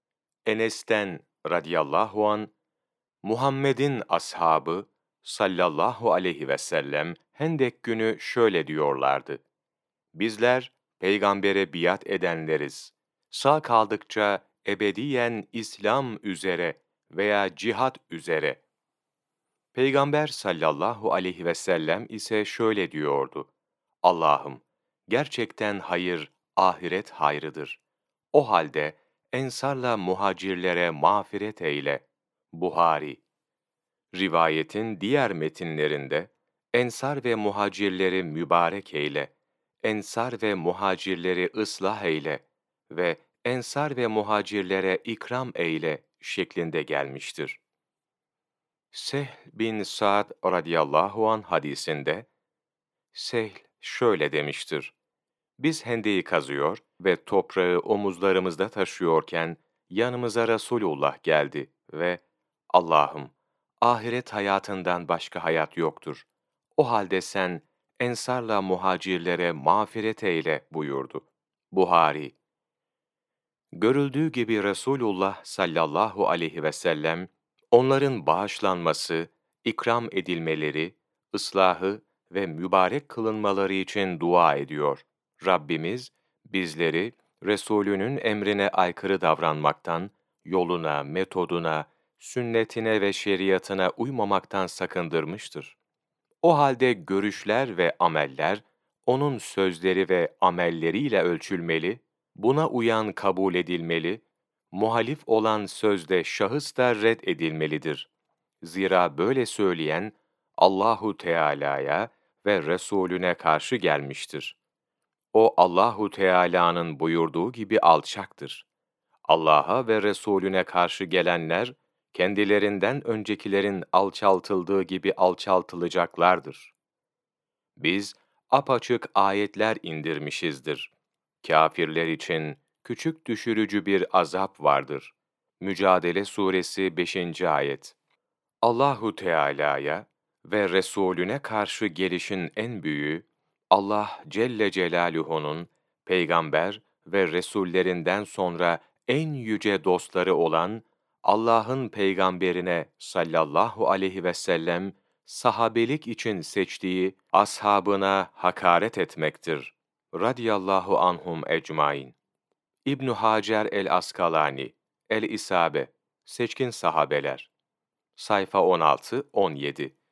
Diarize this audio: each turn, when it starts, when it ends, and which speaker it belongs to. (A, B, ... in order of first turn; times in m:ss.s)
0:00.4-0:02.5 A
0:03.2-0:09.4 A
0:10.1-0:18.6 A
0:19.7-0:23.5 A
0:24.0-0:27.8 A
0:28.3-0:33.2 A
0:34.1-0:39.3 A
0:39.8-0:47.6 A
0:48.9-0:52.3 A
0:53.1-0:54.9 A
0:55.6-1:12.3 A
1:13.7-1:35.8 A
1:36.4-1:48.1 A
1:48.6-1:54.6 A
1:55.3-1:58.6 A
1:59.3-2:06.7 A
2:07.8-2:10.9 A
2:11.4-2:17.9 A
2:18.6-2:42.2 A
2:42.8-2:47.5 A
2:48.2-2:49.9 A